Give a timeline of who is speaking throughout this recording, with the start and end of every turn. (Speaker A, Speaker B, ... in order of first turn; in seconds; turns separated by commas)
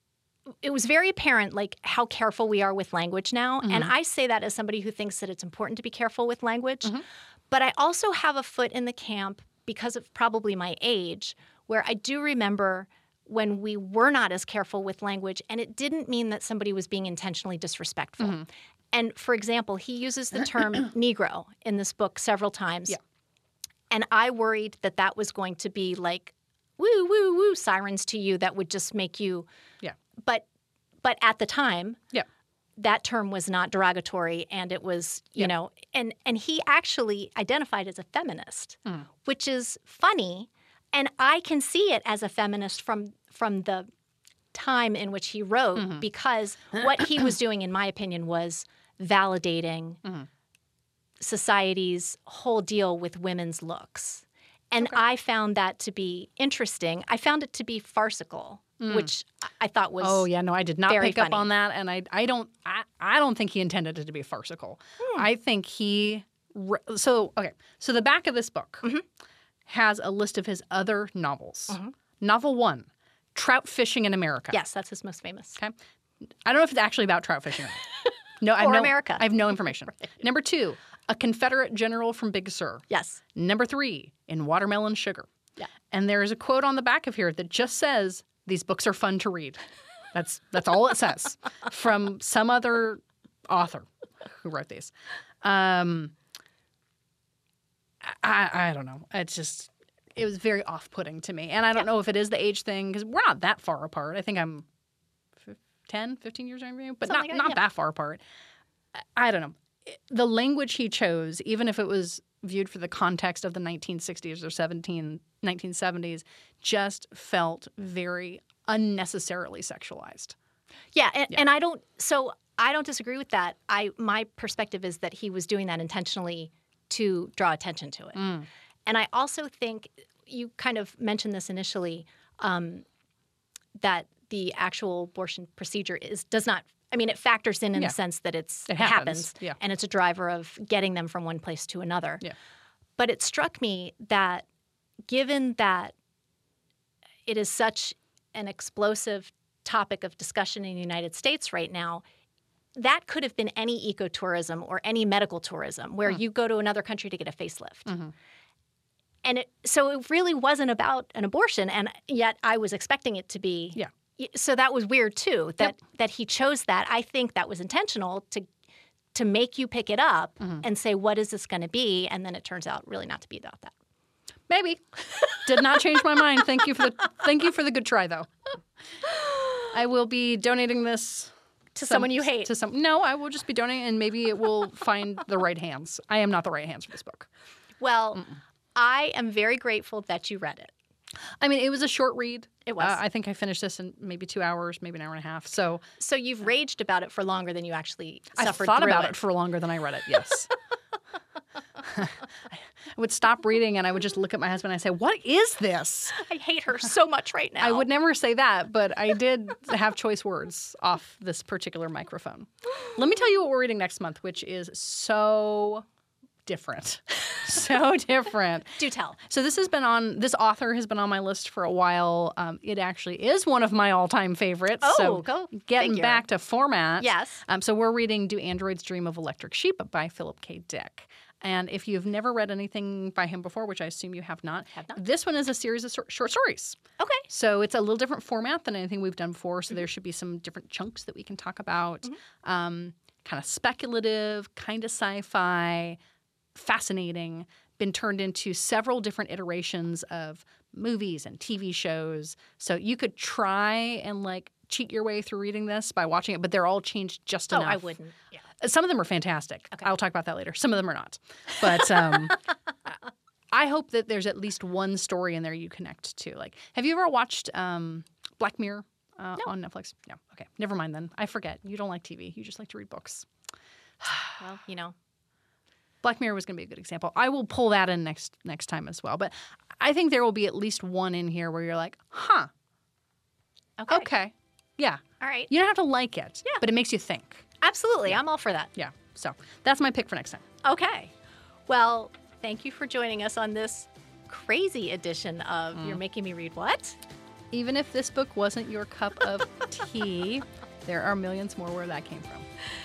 Speaker A: 0.6-23.0, Speaker B: 3.6-3.9, Speaker A: 23.9-29.5, Speaker A: 30.2-30.4, Speaker A: 31.0-32.0, Speaker A: 32.8-43.9, Speaker A: 44.5-50.0, Speaker B: 45.8-46.0, Speaker A: 51.2-60.3, Speaker B: 58.8-59.1, Speaker B: 60.0-68.9, Speaker A: 60.9-61.5, Speaker B: 69.7-74.6, Speaker A: 74.5-75.6, Speaker B: 76.4-77.8, Speaker B: 78.4-85.3, Speaker A: 78.6-79.4, Speaker A: 82.9-83.2, Speaker B: 85.9-89.6, Speaker B: 90.1-96.1, Speaker B: 98.0-104.7, Speaker B: 105.4-108.2, Speaker A: 107.1-107.6, Speaker B: 109.0-120.3, Speaker A: 120.9-132.8, Speaker B: 128.2-128.4, Speaker A: 133.8-142.3, Speaker B: 138.7-139.6, Speaker A: 143.0-144.4, Speaker A: 145.1-145.9, Speaker A: 147.2-152.0, Speaker A: 152.7-158.0, Speaker A: 159.2-168.5, Speaker A: 169.1-173.7, Speaker B: 174.5-178.3, Speaker B: 179.6-181.3, Speaker A: 181.7-182.5, Speaker B: 181.8-187.3, Speaker A: 187.8-190.7, Speaker B: 191.4-195.8, Speaker A: 192.6-193.0, Speaker A: 196.0-199.2, Speaker B: 198.4-200.5, Speaker B: 201.8-206.2, Speaker A: 206.1-207.8, Speaker B: 207.6-215.8, Speaker B: 216.4-246.0, Speaker A: 218.8-219.2, Speaker A: 224.8-226.2, Speaker A: 227.0-227.4, Speaker A: 237.0-237.2, Speaker B: 246.5-258.0, Speaker A: 257.5-258.4, Speaker B: 258.6-262.4, Speaker B: 263.5-273.3, Speaker B: 274.0-274.4, Speaker A: 274.4-274.9, Speaker B: 276.0-282.5, Speaker A: 283.8-284.1, Speaker B: 283.9-287.4, Speaker A: 285.2-285.5, Speaker A: 287.6-288.7, Speaker B: 288.7-290.4, Speaker A: 290.6-291.1, Speaker A: 291.7-297.0, Speaker B: 297.5-302.4